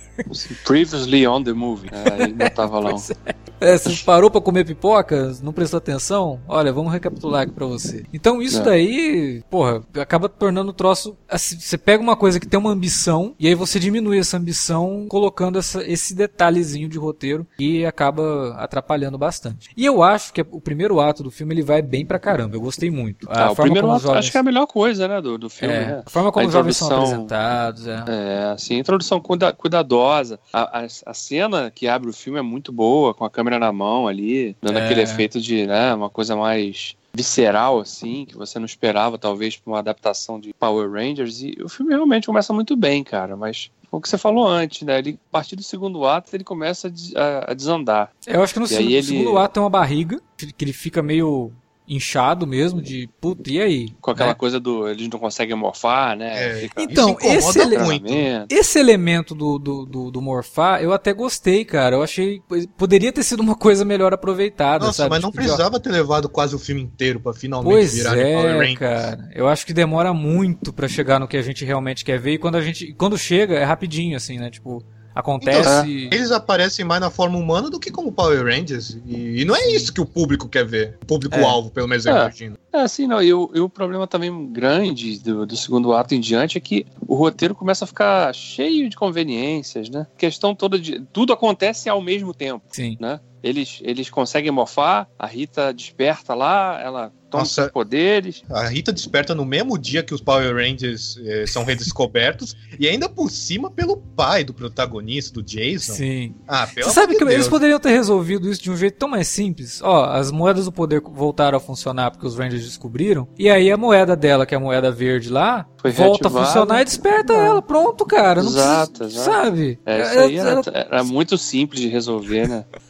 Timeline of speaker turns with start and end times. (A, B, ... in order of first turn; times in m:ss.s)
0:00.3-0:03.1 A
0:02.2-0:24.4 B
0:23.4-0:27.3 A
0:25.6-0:28.1 B
0:28.1-0:48.1 A
0:34.6-0:35.3 B
0:48.3-0:54.4 B
0:48.7-0:49.5 A
0:54.0-0:56.9 A
0:56.3-0:58.3 C
0:56.8-0:57.8 B
0:57.7-0:58.5 A
0:58.5-1:05.6 B
1:04.8-1:08.8 C
1:07.6-1:16.2 B
1:15.4-1:22.6 C
1:15.6-1:15.9 A
1:22.0-1:38.4 A
1:32.7-1:33.0 B
1:37.3-1:37.7 C
1:38.5-1:47.6 C
1:45.8-2:00.7 B
1:55.8-1:57.6 A
1:58.4-2:02.7 A